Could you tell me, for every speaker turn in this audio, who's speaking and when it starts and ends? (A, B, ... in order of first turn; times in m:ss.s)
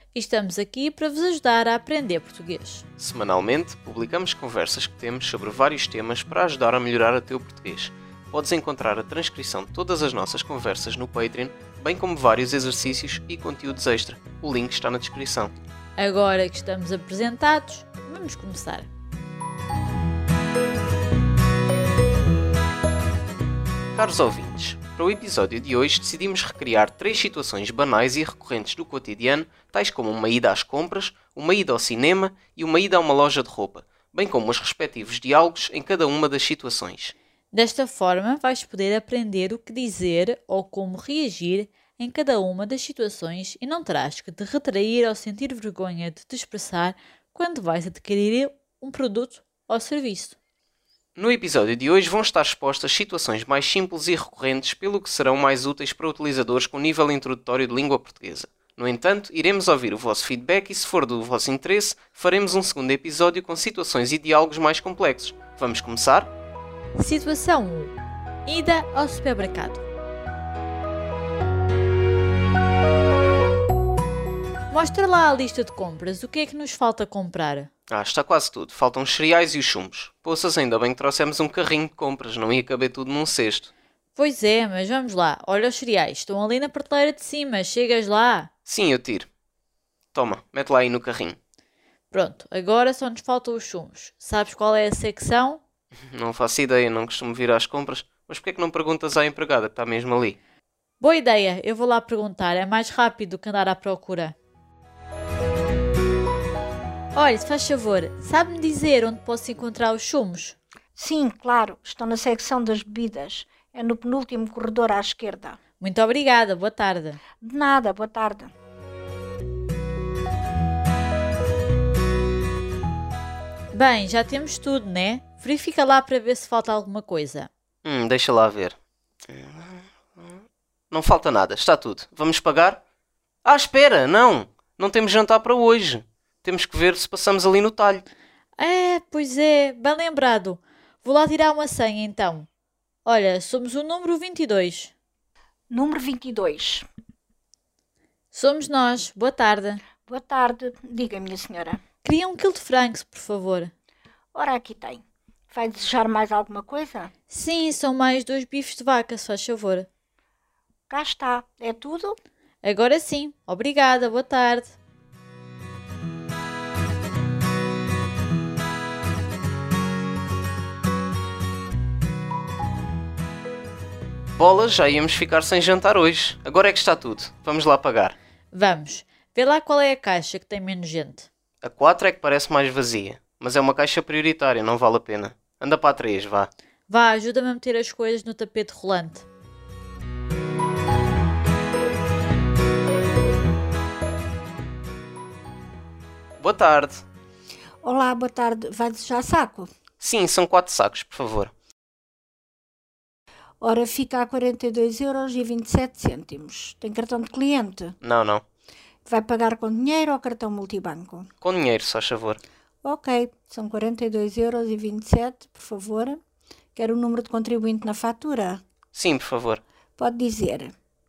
0:00.1-0:02.8 A
0:03.0-0:15.5 B
0:16.0-0:18.9 A
0:24.0-0:37.1 B
0:37.5-0:50.4 A
0:51.2-1:06.3 B
1:07.0-1:07.9 A
1:08.4-1:09.8 A
1:14.7-1:17.7 A
1:17.9-1:23.7 B
1:24.1-1:28.5 A
1:28.7-1:29.3 B
1:30.1-1:31.4 B
1:32.1-1:35.6 A
1:36.1-1:40.4 B
1:41.0-1:44.4 A
1:47.1-1:50.6 A
1:51.0-1:55.6 C
1:55.8-1:57.2 A
1:57.4-1:58.5 C
2:03.7-2:07.5 A
2:07.8-2:08.8 B
2:09.3-2:12.8 B
2:13.4-2:18.0 B
2:18.6-2:22.5 A
2:23.0-2:24.9 A
2:25.7-2:26.8 C
2:28.3-2:29.8 A
2:30.1-2:31.8 C
2:32.0-2:33.7 A
2:34.3-2:37.1 C
2:37.3-2:39.9 A
2:40.9-2:42.2 C
2:42.6-2:44.8 A
2:54.4-2:58.2 B
2:58.5-3:01.3 A
3:01.6-3:06.5 B
3:06.9-3:09.3 A
3:16.4-3:17.0 B
3:17.8-3:19.7 C
3:20.0-3:21.5 B
3:23.6-3:27.9 C
3:28.0-3:28.4 B
3:29.1-3:31.3 C
3:31.4-3:32.4 B
3:32.8-3:36.2 C
3:36.8-3:38.6 C
3:38.9-3:39.6 B
3:40.0-3:40.7 C